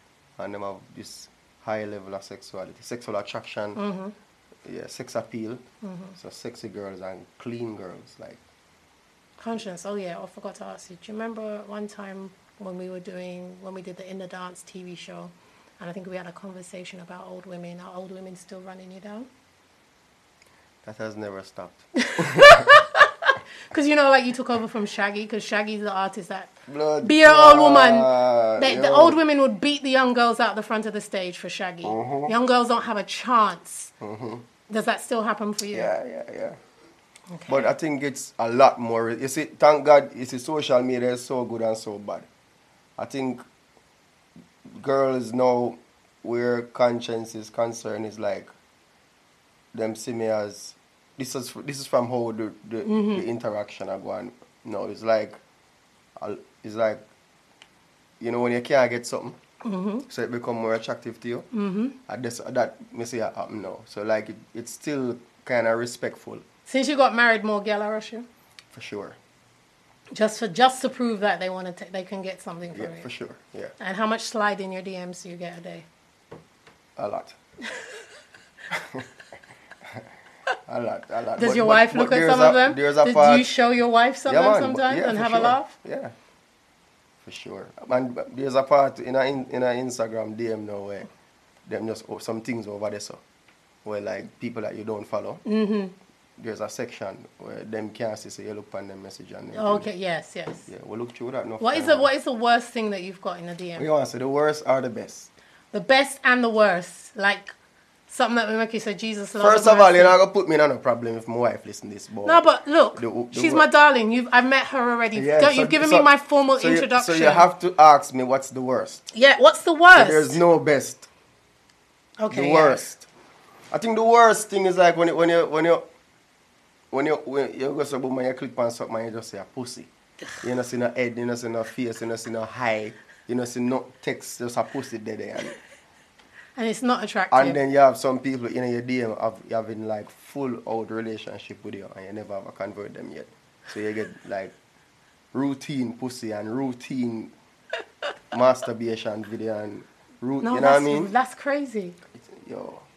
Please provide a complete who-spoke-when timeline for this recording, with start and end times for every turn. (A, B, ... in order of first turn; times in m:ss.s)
0:00.4-0:03.8 A
0:03.8-0:04.1 B
0:04.6-0:05.6 A
0:05.8-0:06.2 B
0:06.2-0:08.4 A
0:09.4-0:19.3 B
0:20.8-0:22.7 A
0:22.0-0:33.9 B
0:26.7-0:29.2 A
0:31.8-0:32.4 A
0:34.0-0:34.5 A
0:34.7-0:35.9 B
0:35.7-0:36.6 A
0:37.3-0:37.7 B
0:37.5-0:42.3 A
0:43.0-0:43.4 A
0:44.7-0:48.5 A
0:49.7-0:55.4 A
0:52.8-0:53.2 B
0:56.2-0:57.0 A
0:58.2-0:59.4 A
0:59.6-1:00.1 B
1:00.1-1:01.5 A
1:01.5-1:02.0 B
1:02.1-1:06.4 A
1:06.7-1:08.3 B
1:08.7-1:09.2 A
1:10.1-1:13.1 B
1:12.7-1:13.7 A
1:13.8-1:15.9 B
1:17.0-1:17.4 A
1:18.7-1:19.1 A
1:20.7-1:23.5 A
1:21.4-1:25.8 B
1:24.3-1:26.2 A
1:27.2-1:31.1 A
1:31.7-1:33.2 A
1:33.8-1:35.4 A
1:35.5-1:36.0 B
1:36.4-1:39.9 A
1:39.6-1:40.7 B
1:40.7-1:42.1 A
1:41.6-1:43.9 B
1:43.8-1:45.3 A
1:45.7-1:47.5 B
1:48.1-1:50.2 B
1:49.4-1:52.4 A
1:52.2-1:57.5 B
1:53.0-1:53.7 A
1:55.2-1:59.1 A
1:59.1-2:00.4 B
2:00.0-2:01.1 A
2:02.2-2:03.0 B
2:02.3-2:02.9 A
2:03.7-2:05.9 A
2:06.9-2:09.9 A
2:10.4-2:15.6 A
2:16.6-2:17.6 B
2:17.3-2:24.6 A
2:25.3-2:27.3 A
2:28.3-2:31.1 A
2:30.4-2:32.0 B
2:32.1-2:32.8 A